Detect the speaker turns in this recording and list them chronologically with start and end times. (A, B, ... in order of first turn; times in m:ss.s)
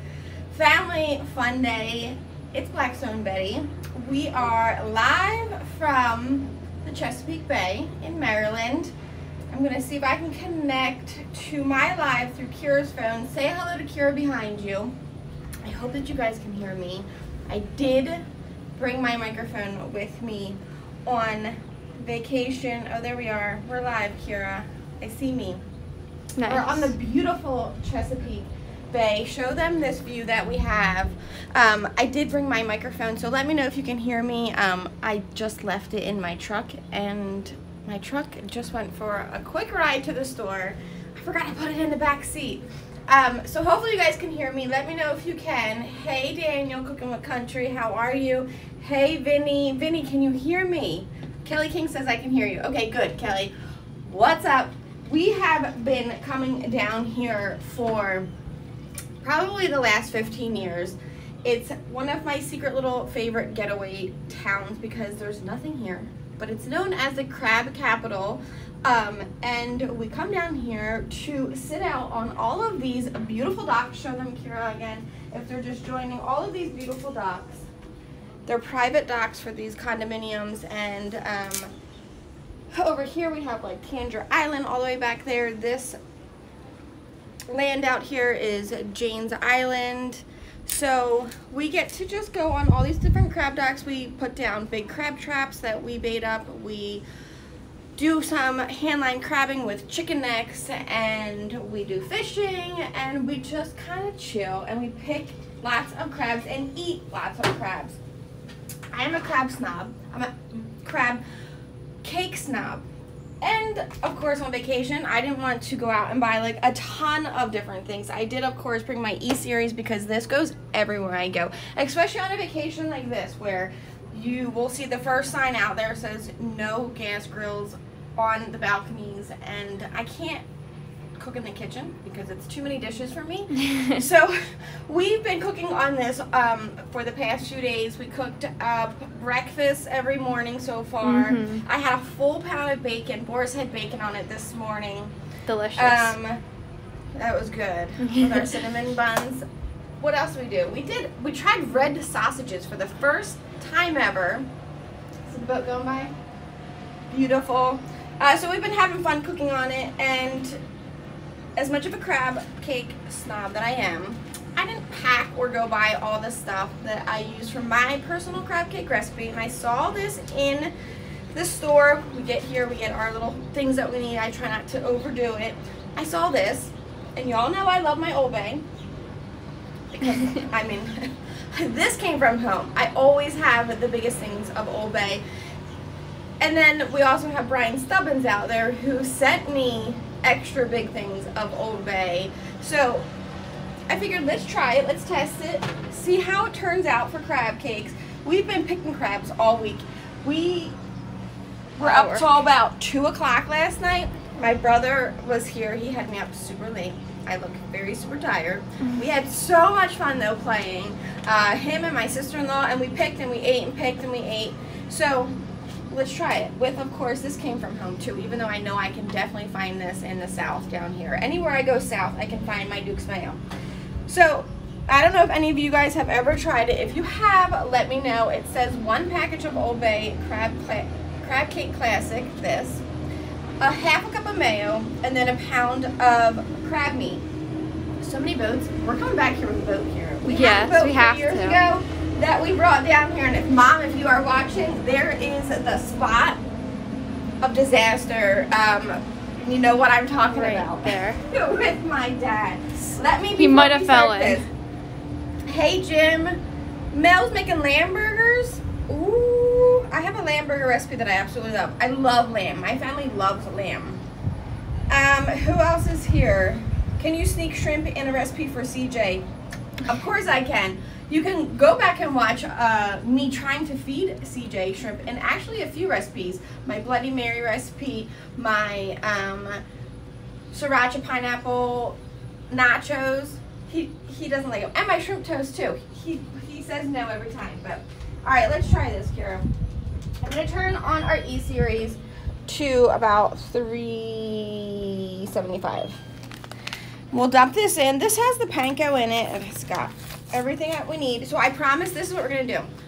0:00.5-0:08.9 A
0:09.5-0:14.9 A
0:15.6-0:18.2 A
0:18.8-0:25.6 A
0:26.4-0:26.9 B
0:26.5-0:53.5 A
0:54.0-0:58.3 A
0:59.2-1:17.6 A
1:18.5-1:21.7 A
1:22.7-1:26.0 A
1:27.5-1:37.0 A
1:38.0-1:48.0 A
1:48.9-1:51.2 A
1:52.0-1:52.8 A
1:53.4-2:10.4 A
2:11.2-2:25.1 A
2:13.6-2:14.0 B
2:21.0-2:21.6 B
2:25.5-2:26.1 B
2:25.8-2:26.4 A
2:27.1-2:29.4 A
2:28.0-2:28.6 B
2:30.0-2:34.5 A
2:35.3-2:36.1 A
2:37.1-2:40.6 A
2:41.6-2:50.7 A
2:51.3-2:58.6 A
2:59.9-3:05.2 A
3:06.4-3:13.1 A
3:13.9-3:20.8 A
3:21.8-3:22.3 B
3:21.8-3:35.3 A
3:35.9-3:43.4 A
3:44.1-3:52.8 A
3:53.6-3:57.2 A
3:58.0-4:06.4 A
4:00.2-4:01.6 B
4:07.4-4:14.5 A
4:10.3-4:11.2 B
4:13.4-4:14.4 B
4:15.4-4:16.4 A
4:16.9-4:24.0 A
4:24.9-4:29.2 A
4:29.8-4:39.6 A
4:40.5-4:42.0 A
4:42.5-4:49.5 A
4:50.2-4:56.0 A
4:57.1-5:02.7 A